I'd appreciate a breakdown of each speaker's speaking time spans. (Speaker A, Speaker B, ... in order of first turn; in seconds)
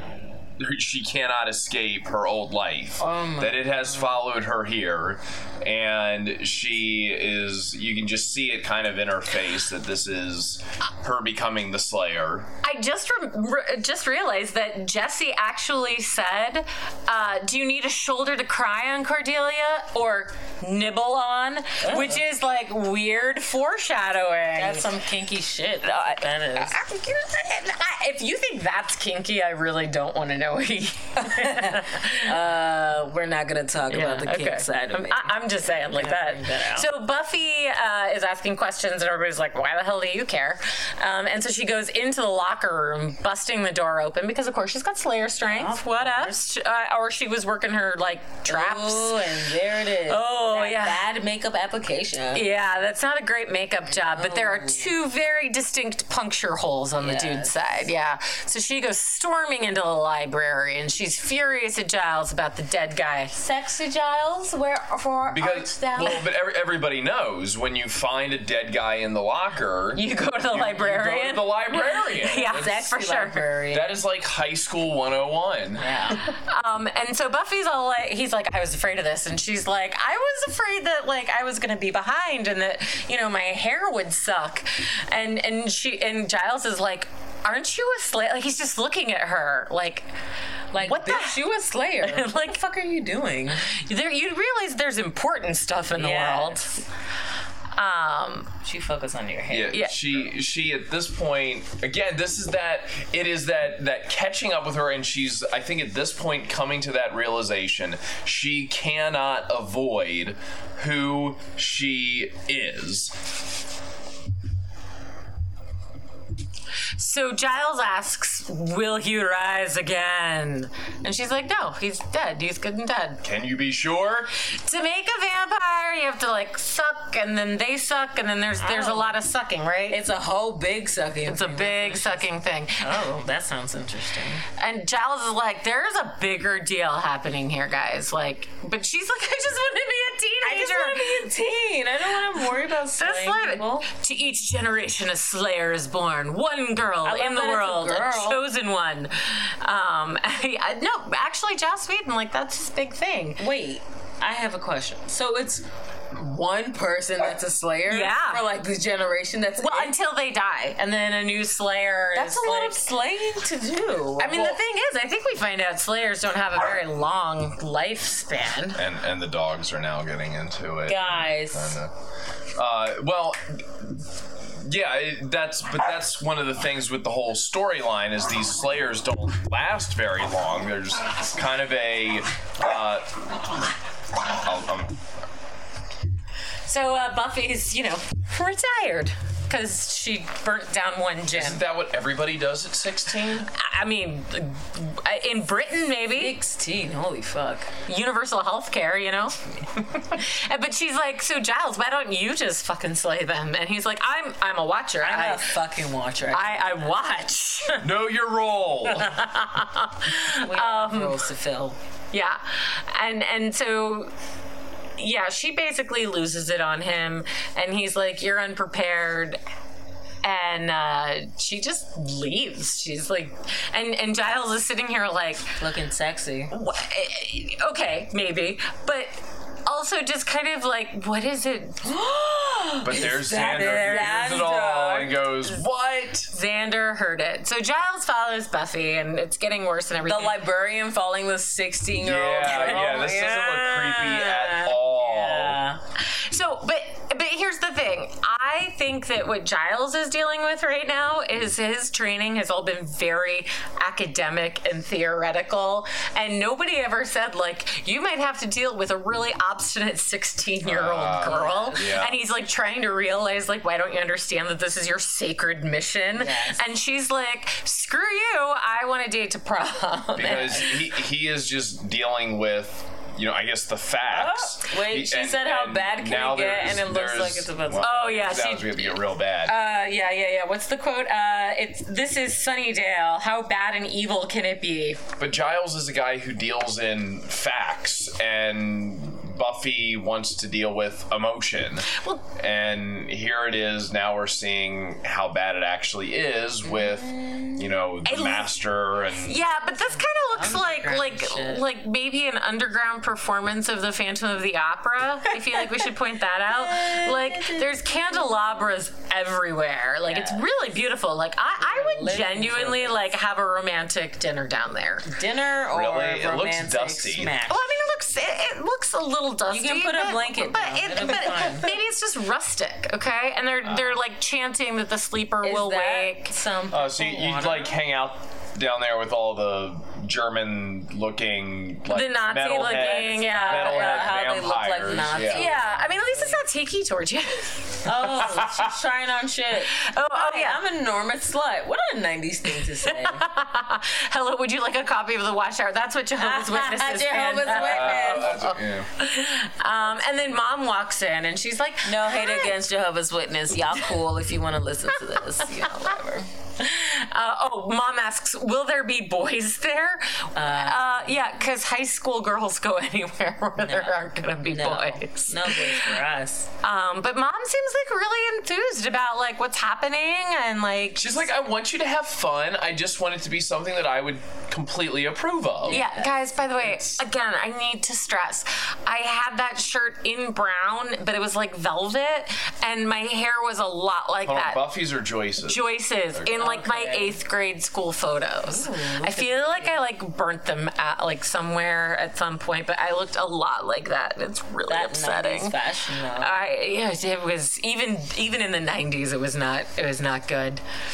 Speaker A: 0.6-12.5, 65.3-72.9, 73.7-75.9, 99.5-113.1, 123.2-124.3, 168.7-171.9, 172.6-174.0, 174.6-183.2, 184.2-184.9, 191.3-193.5, 207.8-209.1, 232.8-236.3, 242.0-245.6, 260.6-262.2, 270.1-279.5, 285.2-299.4, 315.7-317.3, 326.7-335.5, 338.2-338.6, 347.4-348.9, 371.0-375.8, 376.7-377.0, 384.2-386.3
Speaker B: 3.0-4.2, 21.8-22.2, 24.6-26.8, 31.2-35.4, 35.9-36.9, 45.5-46.4, 48.5-52.5, 53.9-54.9, 57.0-57.9, 63.3-66.2, 72.3-73.9, 75.8-76.2, 90.7-93.7, 96.0-96.7, 98.6-99.8, 128.6-129.2, 129.9-132.2, 132.8-134.4, 140.4-143.9, 147.0-148.4, 153.4-159.9, 162.1-164.4, 170.9-171.8, 196.1-197.7, 205.0-206.8, 210.3-211.8, 225.6-226.5, 231.8-235.2, 240.0-245.8, 261.2-262.1, 266.1-266.6, 270.2-270.6, 274.1-278.4, 296.6-297.6, 299.9-301.6, 306.5-308.7, 310.0-310.4, 311.6-313.0, 315.1-317.7, 319.5-321.7, 325.4-327.8, 332.8-336.4, 337.8-343.2, 346.2-348.4, 351.8-356.3, 360.3-361.2, 363.6-363.9, 364.4-366.5, 375.6-376.1, 386.4-387.2, 388.4-389.8, 394.7-396.4
Speaker C: 12.6-24.9, 25.8-32.3, 33.9-49.2, 50.1-51.0, 52.3-63.3, 69.9-73.4, 76.2-90.1, 90.8-91.4, 92.0-92.6, 93.7-96.8, 97.7-98.5, 117.0-123.2, 124.5-130.0, 131.2-133.0, 134.6-141.3, 142.9-153.4, 157.9-158.4, 159.6-162.8, 164.2-168.8, 186.7-191.6, 193.5-196.3, 197.8-205.5, 206.3-207.8, 208.9-211.2, 212.1-214.1, 215.0-219.4, 220.2-225.5, 226.5-231.8, 236.3-240.4, 242.5-242.8, 246.0-270.8, 277.8-278.9, 279.4-285.0, 291.9-292.2, 298.0-298.5, 299.2-315.1, 317.5-326.3, 331.9-334.2, 335.3-337.9, 339.7-340.6, 342.8-352.5, 356.6-366.0, 366.6-371.3, 375.7-384.6, 385.4-395.6, 396.2-400.6